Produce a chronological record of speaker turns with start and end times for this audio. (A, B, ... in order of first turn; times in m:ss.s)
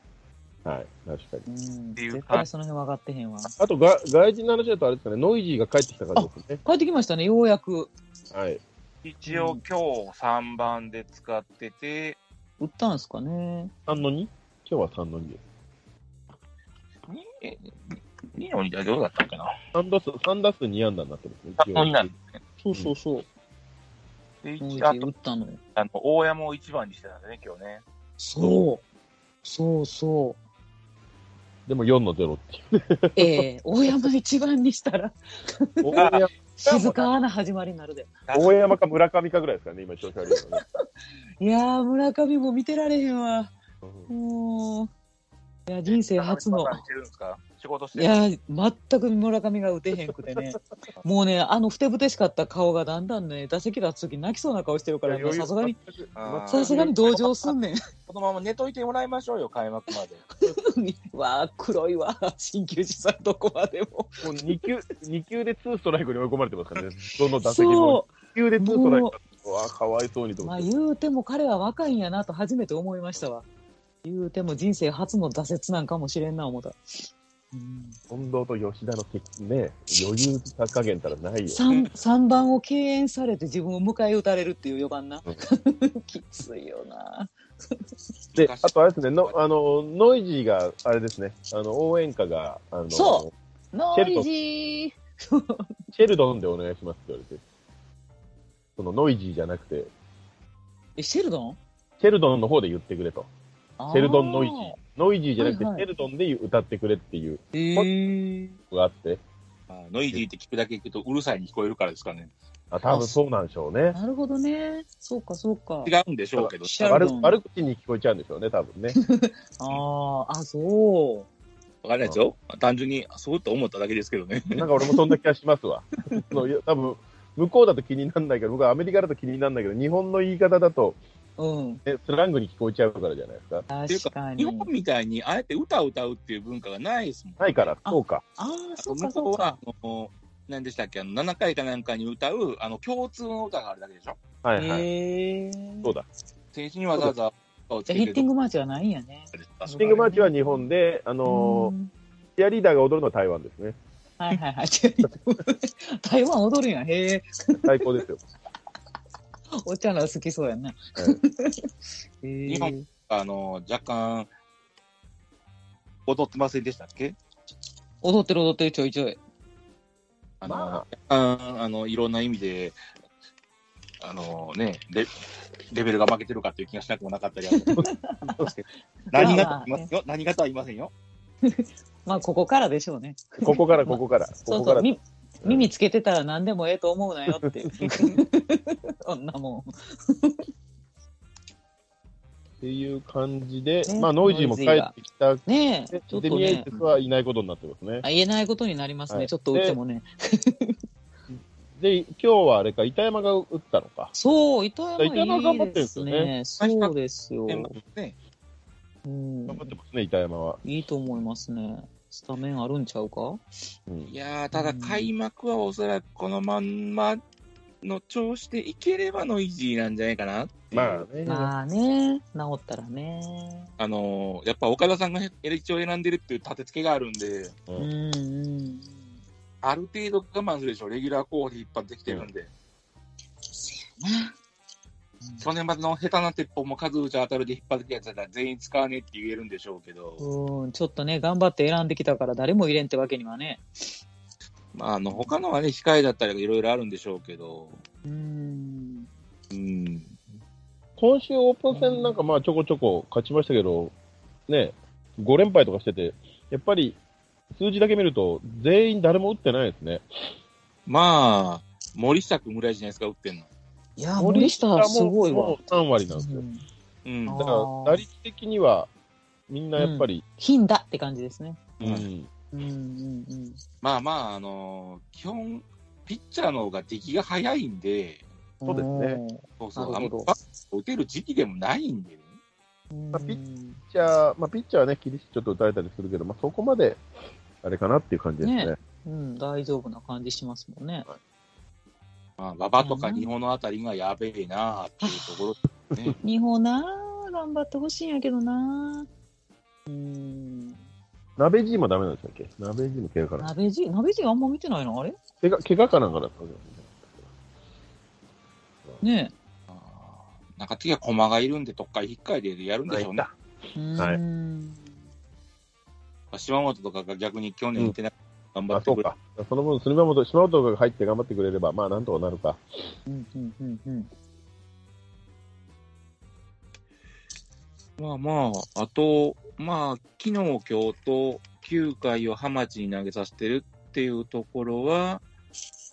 0:00.6-0:01.4 A
0:01.5-0:03.5 B
0:02.0-0:02.5 C
0:03.6-0:06.6 A
0:06.2-0:07.9 B
0:08.3-0:08.6 A
0:09.0-0:12.2 C
0:09.3-0:09.6 B
0:12.6-0:13.7 B
0:13.9-0:15.4 A
0:17.1-0:19.5 C
0:19.7-0:22.1 A
0:21.6-0:22.3 C
0:22.6-0:23.3 B
0:24.4-0:25.1 C
0:24.6-0:25.6 B
0:25.8-0:27.8 C
0:28.2-0:28.8 B
0:29.4-0:30.4 B
0:31.7-0:33.4 A
0:33.2-0:38.1 B
0:35.8-0:36.3 A
0:36.0-0:37.1 C
0:38.3-0:38.8 C
0:38.3-0:40.6 A
0:40.3-0:40.8 B
0:41.4-0:43.5 B
0:43.8-0:44.1 A
0:44.1-0:44.9 B
0:45.7-0:46.8 B
0:45.9-0:48.2 C
0:48.0-0:55.8 B
0:50.1-0:50.4 A
0:55.1-0:57.0 A
0:56.2-0:57.3 C
0:56.5-0:57.8 B
0:58.1-1:00.2 C
1:00.4-1:04.6 B
1:04.2-1:10.7 A
1:07.4-1:09.2 B
1:10.4-1:13.4 B
1:14.0-1:18.0 B
1:18.1-1:21.6 A
1:21.5-1:27.9 B
1:28.3-1:29.3 C
1:28.4-1:33.3 A
1:32.9-1:35.7 B
1:33.9-1:34.3 A
1:35.9-1:37.4 A
1:38.8-1:39.9 A
1:41.0-1:41.6 B
1:42.0-1:43.3 A
1:43.8-1:44.8 B
1:43.9-1:47.9 A
1:45.4-1:45.9 B
1:47.5-1:48.6 B
1:48.7-1:49.2 A
1:49.7-1:52.3 C
1:52.7-1:54.0 A
1:52.9-1:53.2 B
1:53.9-1:55.9 B
1:55.8-1:57.1 C
1:56.4-1:59.0 A
1:56.6-1:57.4 B
1:59.0-2:01.3 B
2:01.8-2:04.7 C
2:04.5-2:11.0 A
2:06.1-2:06.3 B
2:11.4-2:11.8 B
2:11.8-2:13.7 A
2:13.7-2:14.7 B
2:13.9-2:17.8 C
2:17.4-2:18.2 A
2:17.8-2:19.6 B
2:18.8-2:24.2 C
2:24.4-2:24.9 A
2:24.6-2:25.9 B
2:26.5-2:28.3 C
2:27.9-2:30.6 B
2:29.4-2:30.0 C
2:29.8-2:31.7 A
2:31.2-2:31.9 B
2:32.4-2:33.8 A
2:34.2-2:37.9 B
2:37.6-2:38.2 A
2:39.6-2:41.7 B
2:42.2-2:42.9 B
2:42.5-2:44.3 C
2:46.1-2:47.2 C
2:48.0-2:49.2 B
2:50.4-2:52.8 C
2:50.5-2:50.9 A
2:54.0-2:55.1 C
2:55.7-2:57.8 C
2:57.5-2:58.4 B
2:58.4-3:00.9 C
2:59.1-2:59.9 B
2:59.2-2:59.5 A
3:01.4-3:10.5 B
3:03.4-3:04.9 A
3:05.4-3:05.7 A
3:07.4-3:08.1 A
3:12.6-3:18.0 A
3:13.9-3:14.9 B
3:15.5-3:16.8 B
3:18.0-3:20.8 B
3:19.1-3:19.8 A
3:21.3-3:24.1 A
3:24.2-3:27.7 B
3:25.0-3:26.3 A
3:26.6-3:26.9 C
3:27.5-3:28.2 C
3:29.0-3:29.8 B
3:29.5-3:30.6 A
3:30.6-3:33.4 B
3:34.1-3:37.2 C
3:34.5-3:35.1 B
3:37.8-3:41.1 C
3:40.7-3:41.5 A
3:41.2-3:43.7 B
3:43.8-3:47.6 C
3:47.8-3:49.0 B
3:49.6-3:52.5 C
3:53.5-3:54.4 B
3:55.4-4:00.2 C
4:00.2-4:03.6 B
4:04.7-4:07.8 C
4:08.0-4:09.1 B
4:09.5-4:10.2 C
4:11.0-4:13.9 A
4:11.7-4:12.3 B
4:14.5-4:17.0 A
4:17.5-4:20.0 A
4:20.9-4:23.5 C
4:24.0-4:25.6 B
4:24.2-4:26.4 A
4:26.1-4:26.6 B
4:27.0-4:27.5 C
4:27.3-4:28.0 B
4:27.4-4:28.9 A
4:29.5-4:30.2 A
4:29.8-4:31.7 B
4:31.8-4:32.3 A
4:31.8-4:32.1 C
4:32.5-4:33.6 B
4:33.8-4:38.2 C
4:38.6-4:40.4 B
4:38.7-4:39.2 A
4:39.6-4:42.3 C
4:42.9-4:43.8 B
4:43.9-4:47.0 A
4:47.6-4:48.8 A
4:48.4-4:51.1 B
4:52.4-4:56.2 C
4:52.8-4:53.3 B
4:55.0-4:55.4 B
4:56.2-4:59.1 B
4:59.9-5:00.8 B
5:01.4-5:03.5 A
5:03.4-5:05.2 B
5:05.4-5:07.2 A
5:09.0-5:09.3 B
5:09.7-5:13.3 C
5:12.9-5:13.3 A
5:13.8-5:14.9 B
5:16.3-5:19.0 C
5:18.7-5:22.6 A
5:23.1-5:24.1 B
5:28.0-5:35.2 C